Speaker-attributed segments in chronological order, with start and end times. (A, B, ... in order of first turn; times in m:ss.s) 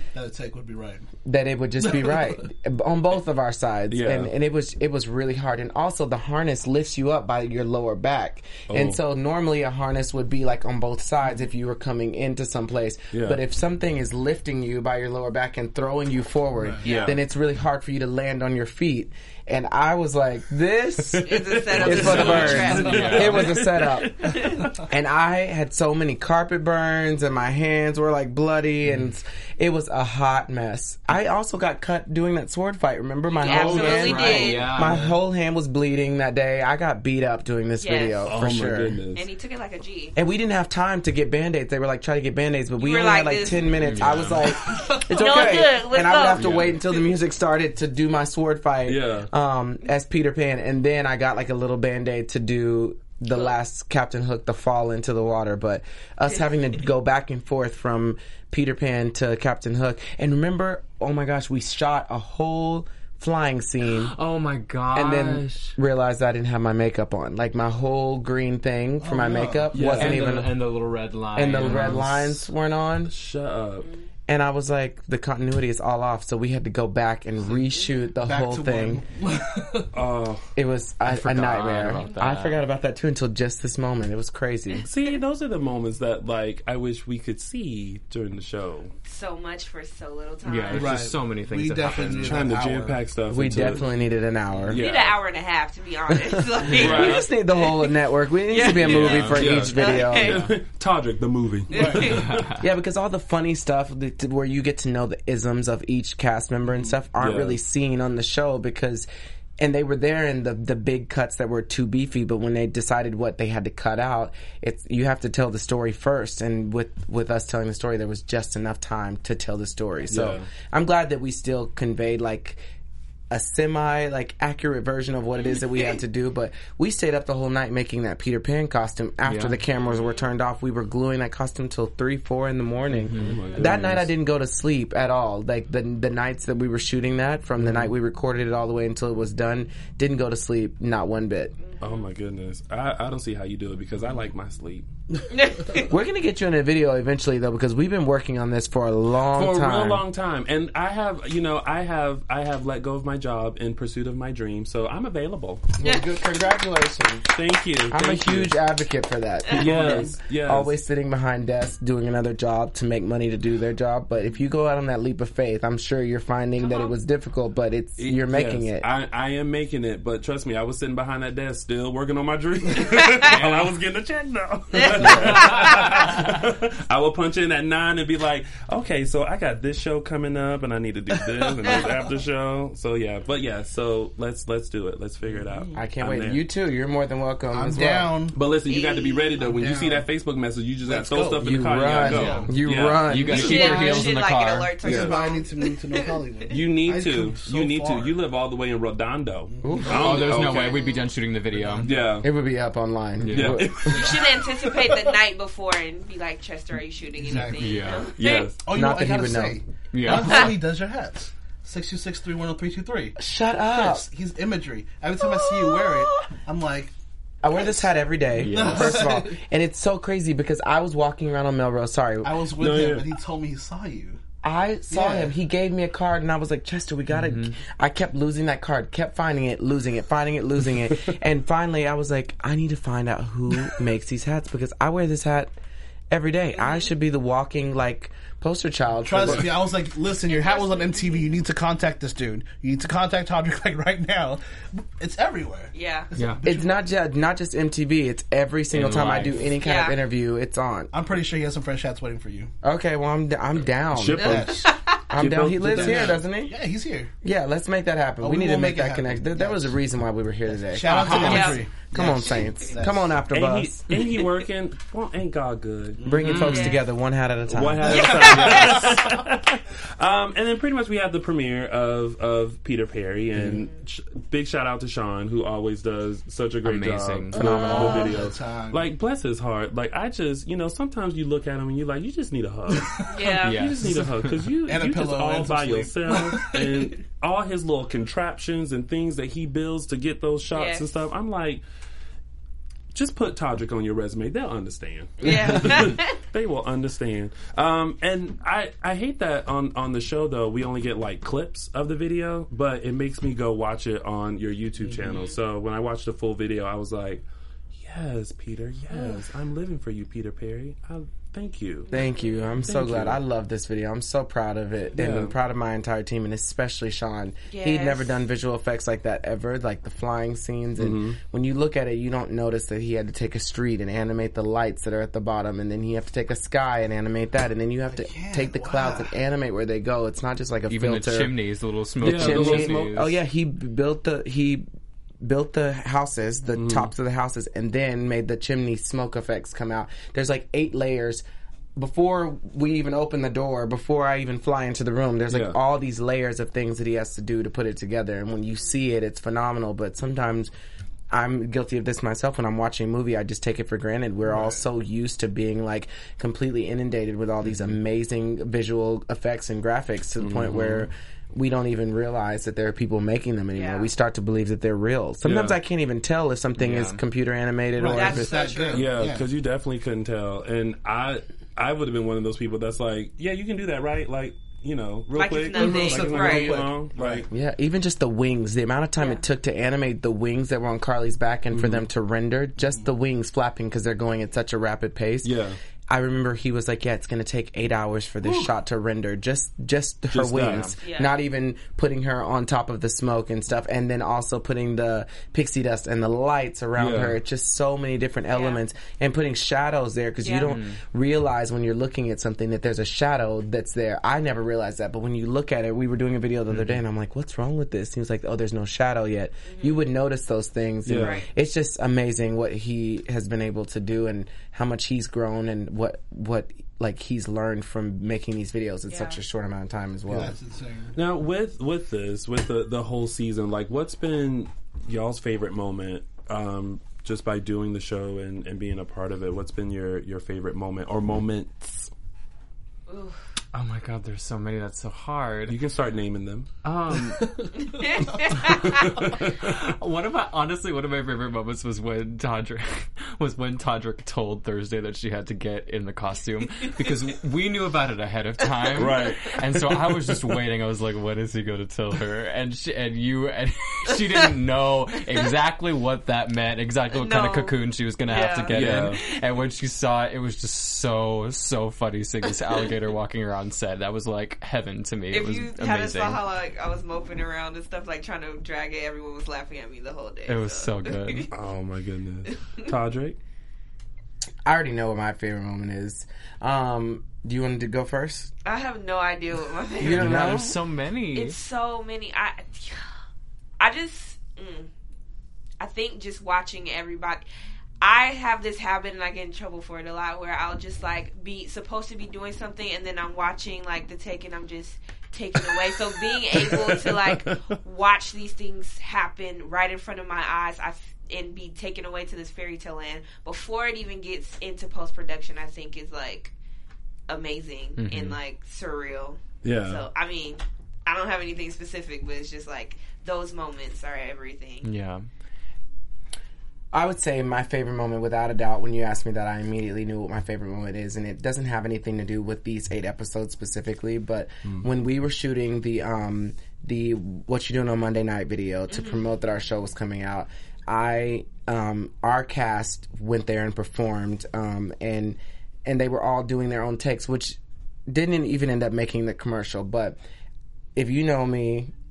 0:00.1-0:01.0 A
0:01.2-0:24.3 B
0:01.8-0:02.4 A
0:03.9-0:04.3 C
0:08.7-0:09.0 C
0:13.1-0:13.4 C
0:16.6-0:16.8 A
0:16.8-0:17.1 D
0:16.8-0:17.2 C
0:21.1-0:24.8 C
0:21.2-0:23.2 D
0:21.9-0:23.5 E
0:22.8-0:23.3 A
0:24.2-0:24.6 D
0:24.8-0:39.0 B
0:28.8-0:29.1 E
0:33.3-0:35.0 D
0:33.4-0:35.2 E
0:37.8-0:38.3 D
0:38.3-0:39.3 C
0:39.1-0:40.1 D
0:40.1-1:04.1 B
0:42.8-0:43.8 D
0:43.8-0:44.5 E
0:44.6-0:46.6 D
0:44.6-0:45.0 A
0:46.4-0:46.7 C
0:46.4-0:46.7 E
0:48.9-0:49.3 C
1:03.9-1:05.7 E
1:04.9-1:10.6 B
1:09.0-1:09.7 A
1:09.7-1:10.4 C
1:09.8-1:12.3 E
1:11.3-1:13.1 B
1:11.6-1:12.0 C
1:13.1-1:13.9 C
1:14.3-1:19.0 B
1:18.2-1:19.9 A
1:19.9-1:20.5 C
1:20.6-1:24.9 B
1:21.0-1:22.6 E
1:21.9-1:22.2 D
1:24.8-1:28.9 C
1:29.0-1:31.0 D
1:30.4-1:32.9 E
1:30.7-1:33.0 A
1:32.0-1:33.8 C
1:33.3-1:34.8 B
1:34.6-1:35.2 C
1:34.7-1:37.9 D
1:36.2-1:40.4 B
1:36.7-1:37.3 C
1:38.5-1:40.4 D
1:38.8-1:39.6 E
1:38.8-1:42.5 C
1:40.2-1:40.5 E
1:41.7-1:42.2 A
1:41.7-1:42.3 D
1:42.0-1:42.6 E
1:42.6-1:49.1 B
1:47.2-1:47.6 C
1:49.6-2:02.6 B
2:00.1-2:00.5 C
2:03.3-2:21.5 B
2:09.2-2:09.6 E
2:12.9-2:14.0 E
2:13.2-2:14.1 C
2:17.6-2:17.9 E
2:21.6-2:22.1 D
2:21.8-2:24.9 C
2:25.3-2:25.9 D
2:25.8-2:30.0 B
2:29.3-2:35.7 C
2:35.8-2:37.3 B
2:37.3-2:38.5 C
2:37.9-2:48.9 B
2:39.5-2:40.7 C
2:39.6-2:40.2 A
2:46.6-2:46.9 D
2:48.0-3:06.4 C
2:52.8-2:53.4 D
2:53.3-2:53.7 E
2:54.7-2:56.0 D
2:55.0-2:55.4 B
3:01.2-3:01.9 A
3:05.3-3:05.8 A
3:05.7-3:08.1 B
3:07.5-3:08.4 A
3:08.3-3:13.7 C
3:08.7-3:09.5 D
3:09.4-3:10.1 A
3:10.9-3:12.5 A
3:11.4-3:14.1 B
3:12.1-3:14.7 E
3:13.3-3:16.5 D
3:14.8-3:18.1 A
3:14.8-3:15.1 C
3:16.5-3:20.8 C
3:19.5-3:20.2 A
3:19.6-3:20.1 B
3:19.9-3:21.9 E
3:20.6-3:21.0 D
3:21.5-3:22.2 A
3:21.8-3:22.3 C
3:22.2-3:24.0 B
3:23.2-3:23.6 E
3:23.3-3:24.2 C
3:23.9-3:25.1 A
3:23.9-3:28.5 D
3:27.2-3:27.8 A
3:27.4-3:28.1 E
3:28.2-3:28.6 C
3:28.6-3:33.2 A
3:28.7-3:29.6 B
3:29.9-3:30.6 E
3:30.1-3:30.5 D
3:33.2-3:34.0 B
3:33.7-3:36.9 A
3:35.2-3:36.3 D
3:37.4-3:42.4 B
3:37.5-3:37.9 A
3:38.4-3:39.1 E
3:38.5-3:39.4 A
3:42.2-3:44.2 A
3:42.6-3:43.1 C
3:44.4-3:55.5 B
3:44.9-3:45.3 A
3:47.1-3:47.6 E
3:56.1-3:59.5 B
3:56.6-3:56.9 D
3:59.0-4:06.8 A
4:00.2-4:01.4 D
4:05.7-4:06.1 D
4:06.1-4:06.4 E
4:06.4-4:10.9 B
4:08.7-4:09.4 E
4:08.7-4:09.3 C
4:09.6-4:10.0 D
4:10.9-4:12.5 A
4:12.6-4:14.4 B
4:13.9-4:14.5 C
4:14.1-4:14.7 A
4:14.2-4:15.1 D
4:15.1-4:16.5 B
4:15.2-4:16.2 C
4:15.5-4:17.1 A
4:17.2-4:23.8 B
4:18.2-4:19.8 A
4:20.5-4:23.2 A
4:20.8-4:21.6 E
4:21.2-4:21.6 D
4:23.3-4:26.6 C
4:26.0-4:26.5 A
4:26.0-4:28.1 B
4:26.2-4:26.8 E
4:26.5-4:26.8 D
4:27.5-4:51.6 C
4:27.8-4:29.3 A
4:27.9-4:29.2 D
4:33.4-4:33.6 B
4:36.6-4:38.1 E
4:37.3-4:38.1 D
4:37.6-4:38.9 A
4:42.7-4:43.1 A
4:43.1-4:43.6 D
4:43.4-4:44.4 E
4:44.7-4:46.7 A
4:50.5-4:50.9 D
4:52.9-5:11.9 C
4:55.2-4:56.2 D
4:55.2-4:55.8 A
5:04.8-5:05.2 A
5:05.0-5:05.4 D
5:08.9-5:09.2 D
5:11.9-5:12.6 D
5:11.9-5:31.3 B
5:12.6-5:13.2 C
5:15.0-5:15.3 C
5:17.5-5:18.1 D
5:20.8-5:21.2 C
5:27.9-5:29.1 A
5:30.7-5:33.1 E
5:32.0-5:33.0 C
5:32.0-5:34.6 B
5:35.2-5:41.2 B
5:36.5-5:36.9 C
5:41.8-5:50.5 B
5:45.3-5:45.6 C
5:51.1-6:08.3 B
5:54.3-5:54.6 A
6:00.2-6:00.9 C
6:03.5-6:03.9 D
6:05.2-6:05.6 C
6:06.6-6:07.0 E
6:07.8-6:09.3 A
6:07.8-6:08.9 D
6:08.7-6:17.3 C
6:15.1-6:16.6 D
6:15.5-6:17.3 A
6:17.3-6:25.3 B
6:21.5-6:21.8 C
6:25.2-6:25.6 C
6:25.9-7:00.3 B
6:28.2-6:28.5 A
6:30.1-6:30.7 C
6:30.4-6:30.7 E
6:30.8-6:31.1 D
6:36.8-6:37.2 C
6:38.3-6:38.6 D
6:40.2-6:40.6 D
6:40.4-6:40.8 E
6:49.5-6:49.8 D
6:50.8-6:51.2 C
6:50.9-6:51.3 D
6:58.9-6:59.2 D
7:00.1-7:01.0 A
7:00.9-7:11.9 C
7:12.9-7:13.2 D
7:13.5-7:15.6 E
7:15.5-7:16.5 C
7:16.6-7:17.4 E
7:17.2-7:17.6 A
7:17.6-7:18.9 D
7:18.8-7:19.4 C
7:19.3-7:46.2 E
7:28.8-7:29.9 C
7:37.0-7:38.9 D
7:38.5-7:39.0 C
7:45.1-7:51.3 D
7:50.3-7:51.3 E
7:51.3-7:53.2 C
7:52.3-7:52.7 D
7:54.4-7:58.3 B
7:58.4-8:00.6 D
7:59.8-8:00.6 B
7:59.8-8:01.4 E
8:01.1-8:02.9 D
8:03.6-8:04.7 D
8:05.6-8:07.2 D
8:07.8-8:26.3 D
8:16.4-8:17.4 C
8:27.1-8:34.7 D
8:27.8-8:28.2 E
8:29.4-8:29.8 C
8:34.6-8:35.0 E
8:36.7-9:00.0 B
8:48.7-8:49.0 D
9:00.8-9:01.7 B